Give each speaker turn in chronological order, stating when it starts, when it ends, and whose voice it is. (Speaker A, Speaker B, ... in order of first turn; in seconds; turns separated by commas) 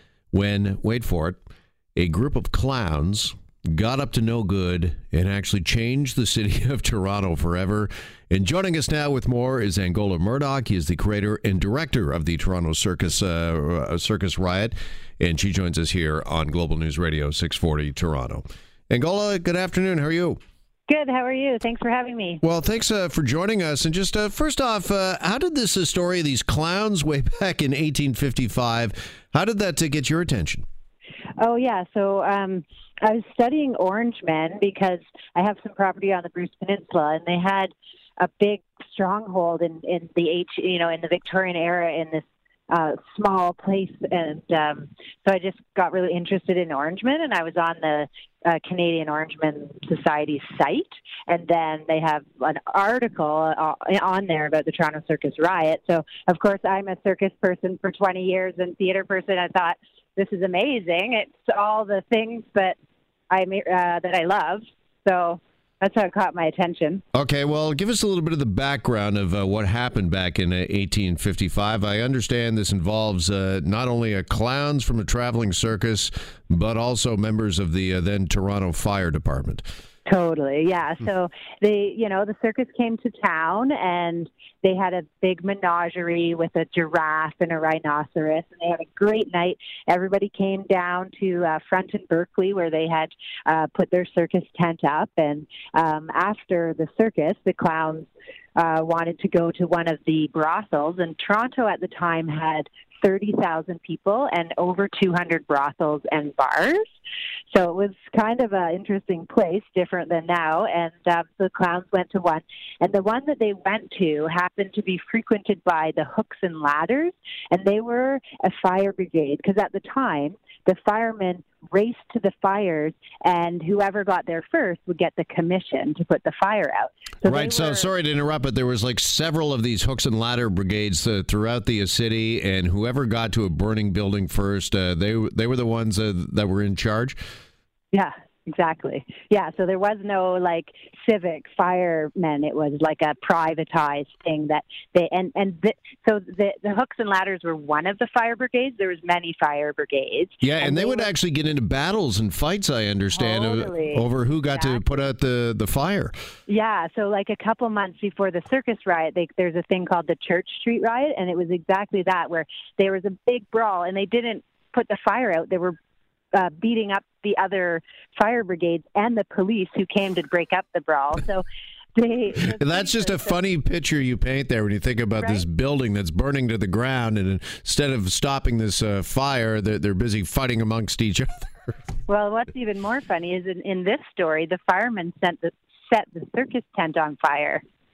Speaker A: 0.3-1.4, Speaker A: 2.0-20.4, Speaker B: 20.9-22.4, Speaker A: 22.4-30.6, Speaker B: 31.4-62.8, Speaker B: 63.3-67.0, Speaker A: 67.1-79.6, Speaker B: 80.1-106.8, Speaker B: 107.5-127.9, Speaker A: 127.2-137.2, Speaker B: 137.9-151.1, Speaker A: 150.4-156.1, Speaker B: 153.1-154.8, Speaker B: 156.5-165.8, Speaker B: 166.3-173.4, Speaker A: 172.6-181.7, Speaker B: 175.2-175.4, Speaker B: 182.1-187.6